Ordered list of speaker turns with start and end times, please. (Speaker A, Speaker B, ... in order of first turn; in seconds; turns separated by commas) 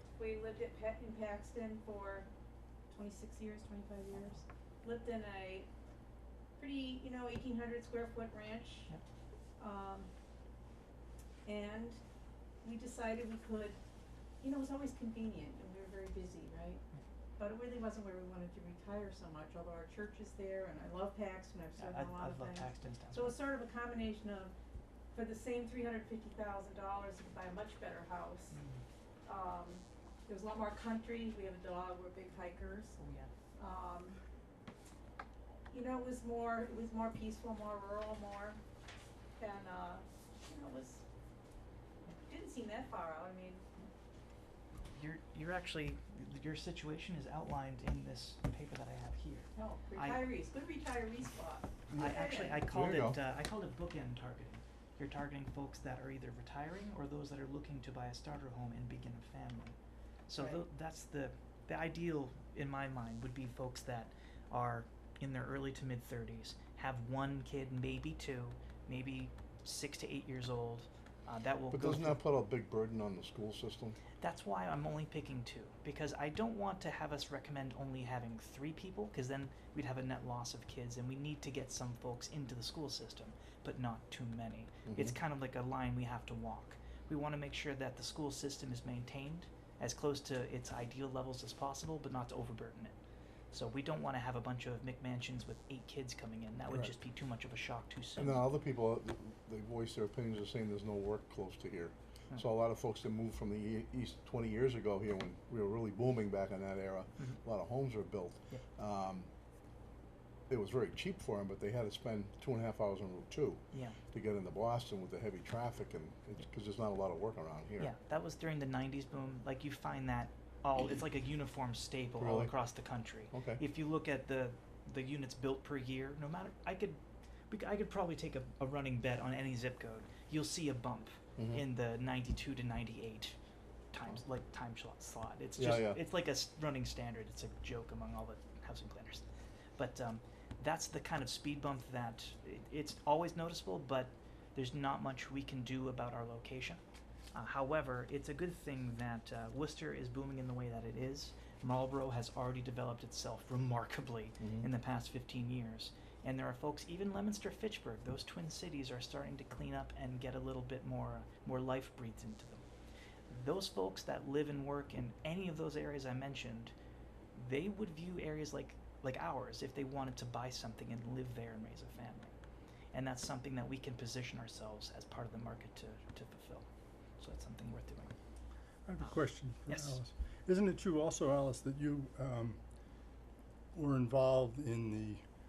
Speaker A: 0.2-2.3, Speaker A: 2.9-5.7, Speaker A: 6.6-8.9, Speaker A: 9.6-10.1, Speaker A: 11.5-12.0, Speaker A: 12.6-13.8, Speaker A: 14.4-16.8, Speaker A: 17.4-24.5, Speaker B: 21.8-23.4, Speaker A: 25.1-28.6, Speaker B: 28.5-28.8, Speaker A: 29.3-33.0, Speaker B: 33.0-33.3, Speaker A: 33.6-34.2, Speaker A: 35.7-38.6, Speaker A: 39.4-41.0, Speaker A: 42.2-43.6, Speaker B: 44.9-50.2, Speaker A: 49.5-52.6, Speaker B: 52.0-59.8, Speaker C: 52.7-53.2, Speaker B: 60.3-72.2, Speaker C: 71.7-74.0, Speaker B: 74.2-92.9, Speaker C: 84.9-85.1, Speaker B: 93.5-98.4, Speaker C: 98.2-109.3, Speaker C: 110.5-117.9, Speaker B: 113.7-114.0, Speaker B: 117.8-133.4, Speaker C: 122.2-122.5, Speaker C: 123.3-123.6, Speaker C: 131.4-131.6, Speaker B: 133.9-139.2, Speaker C: 135.6-136.0, Speaker B: 139.8-146.8, Speaker B: 147.3-162.6, Speaker C: 154.4-154.7, Speaker B: 163.3-166.7, Speaker B: 167.3-172.3, Speaker B: 172.9-176.7, Speaker B: 177.2-178.1, Speaker D: 178.9-182.6, Speaker B: 179.7-180.0, Speaker D: 183.7-185.2